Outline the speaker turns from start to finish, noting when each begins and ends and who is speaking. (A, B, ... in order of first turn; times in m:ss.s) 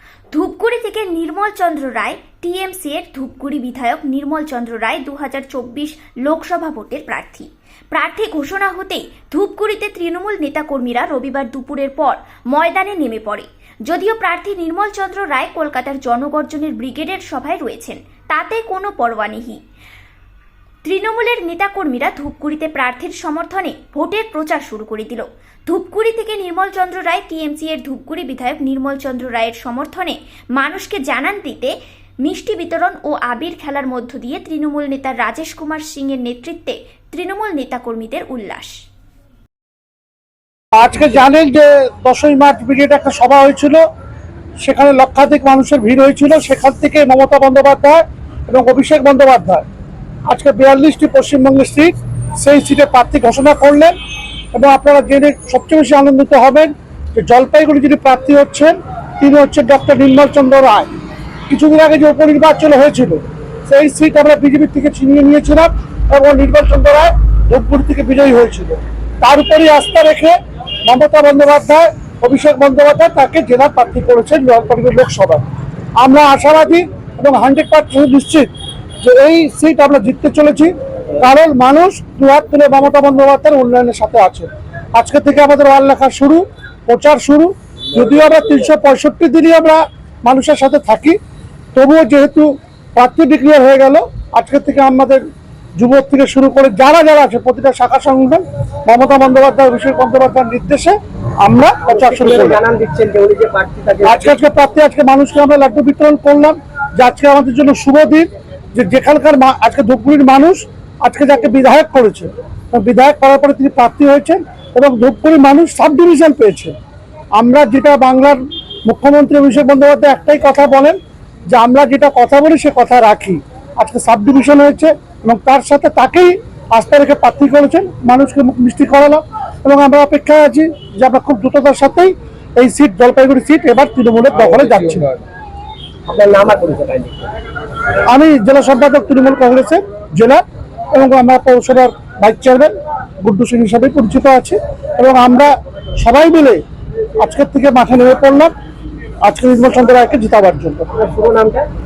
0:00.3-0:19.6 A
0:20.8-0:38.7 A
0:40.7-0:43.8 B
0:44.6-0:49.6 B
0:50.3-0:54.0 B
0:54.5-1:00.9 B
1:01.5-1:15.4 B
1:16.0-1:18.5 B
1:19.0-1:31.2 B
1:31.8-1:35.2 B
1:35.8-1:42.6 B
1:41.8-1:44.4 C
1:44.0-1:56.8 B
1:57.4-2:01.0 B
2:01.5-2:15.1 B
2:16.1-2:17.2 C
2:18.1-2:26.6 B
2:27.2-2:28.5 B
2:29.2-2:30.9 B
2:30.9-2:31.7 C